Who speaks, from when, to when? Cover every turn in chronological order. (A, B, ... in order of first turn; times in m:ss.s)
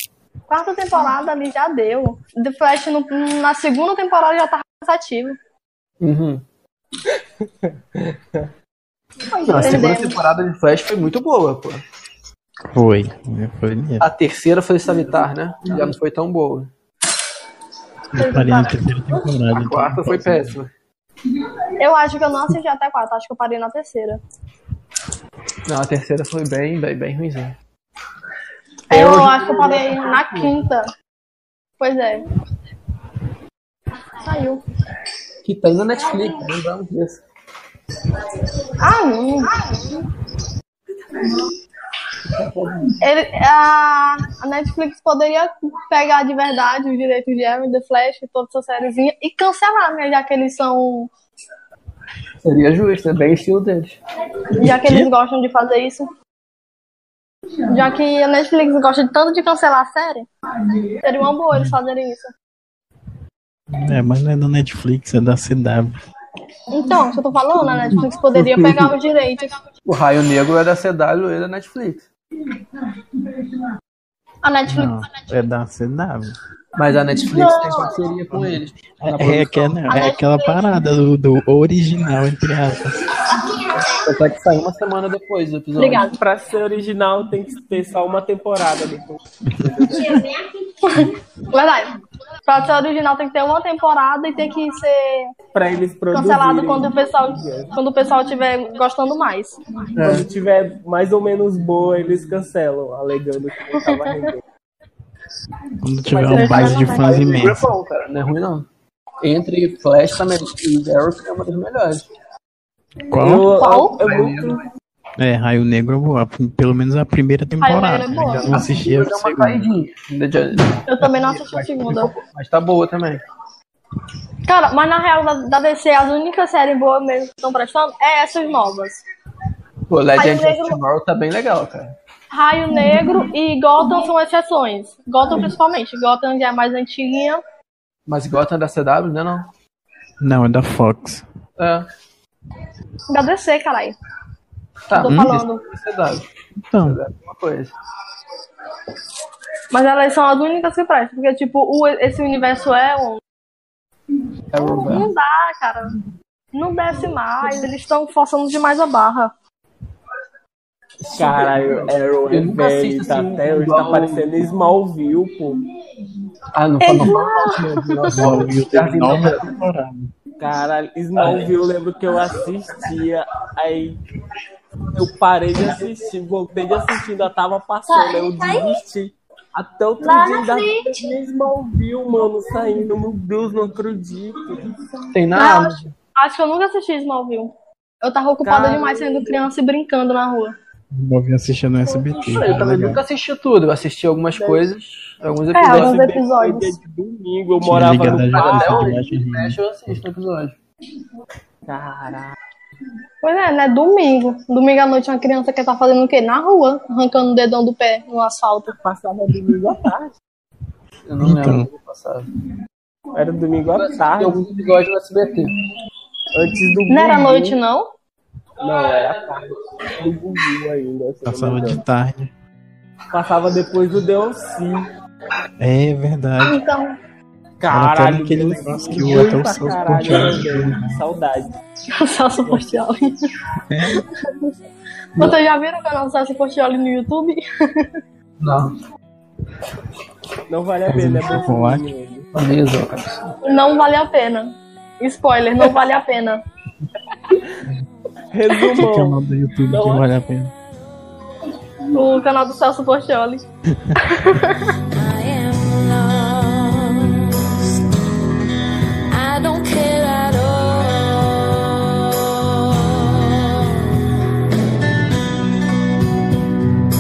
0:00.5-0:05.4 A
0:06.0-0:06.4 B
0:07.1-0:08.5 C
0:09.3-0:10.2 A
0:09.5-0:11.8 B
0:09.5-0:09.8 D
0:12.7-0:14.1 D
0:14.0-0:16.7 B
0:18.1-0:20.5 D
0:18.2-0:18.8 A
0:19.5-0:20.7 B
0:21.8-0:24.2 A
0:25.7-0:27.6 B
0:28.9-0:30.6 B
0:28.9-0:30.9 A
0:31.8-0:32.2 A
0:34.2-0:34.6 A
0:35.4-0:37.2 B
0:38.8-0:39.6 A
0:42.3-0:42.9 B
0:43.0-0:51.1 A
0:52.4-0:54.0 B
0:54.6-0:56.1 A
0:54.7-0:55.1 D
0:57.7-1:00.3 A
1:01.0-1:02.3 A
1:03.8-1:05.9 D
1:06.7-1:09.5 A
1:07.7-1:09.0 B
1:09.9-1:12.1 B
1:14.4-1:15.1 A
1:14.7-1:16.4 D
1:16.8-1:19.8 B
1:17.3-1:18.0 A
1:18.3-1:23.0 D
1:19.9-1:20.7 A
1:24.0-1:26.1 B
1:25.8-1:26.1 A
1:26.2-1:30.2 C
1:30.9-1:31.8 A
1:32.5-1:35.3 A
1:35.5-1:37.7 C
1:36.1-1:39.6 A
1:40.0-1:40.3 B
1:40.0-1:44.4 C
1:45.8-1:47.7 D
1:46.1-1:48.7 B
1:46.2-1:46.8 C
1:46.3-1:47.2 A
1:49.2-1:52.1 B
1:53.1-1:53.5 D
1:53.2-1:54.6 C
1:53.6-1:54.0 A
1:53.8-1:54.6 B
1:55.2-1:59.7 D
1:57.6-1:58.7 A
1:58.2-2:03.2 B
2:00.9-2:02.1 A
2:04.5-2:09.0 A
2:09.9-2:11.9 B
2:10.2-2:10.8 A
2:12.3-2:17.4 A
2:18.1-2:19.5 B
2:20.2-2:21.2 D
2:21.6-2:21.8 B
2:23.1-2:24.0 A
2:24.9-2:26.3 B
2:24.9-2:25.6 A
2:25.1-2:25.4 D
2:26.7-2:27.0 D
2:26.8-2:27.7 B
2:29.7-2:33.2 A
2:34.5-2:35.1 B
2:34.6-2:35.9 A
2:36.5-2:39.3 A
2:41.0-2:44.3 B
2:41.2-2:45.6 C
2:46.5-2:49.5 B
2:46.8-2:48.2 A
2:48.1-2:50.1 D
2:50.4-2:54.0 C
2:51.2-2:51.5 B
2:54.9-3:04.7 C
3:00.0-3:00.8 A
3:05.1-3:05.9 B
3:05.4-3:10.6 A
3:08.4-3:09.4 C
3:10.9-3:13.0 D
3:12.4-3:16.0 B
3:14.4-3:14.7 C
3:15.5-3:16.8 A
3:15.7-3:19.0 C
3:17.6-3:20.0 D
3:17.8-3:20.6 B
3:21.7-3:22.4 C
3:23.2-3:28.7 A
3:28.7-3:30.2 C
3:31.1-3:32.3 B
3:31.2-3:31.7 D
3:33.2-3:34.4 C
3:33.7-3:35.5 B
3:36.3-3:37.6 C
3:36.9-3:37.9 A
3:38.6-3:41.8 C
3:41.2-3:42.3 D
3:43.1-3:44.9 C
3:45.6-3:46.6 D
3:46.4-3:46.9 A
3:47.6-3:51.5 C
3:47.7-3:51.0 D
3:52.0-3:53.1 A
3:55.2-3:57.4 A
3:58.4-3:58.7 B
4:00.5-4:02.3 C
4:00.9-4:01.3 B
4:01.0-4:01.9 D
4:02.4-4:03.3 B
4:03.4-4:06.4 A
4:08.3-4:10.0 C
4:08.8-4:10.5 D
4:11.9-4:13.4 A
4:14.2-4:14.6 A
4:14.9-4:17.7 E
4:19.1-4:23.8 E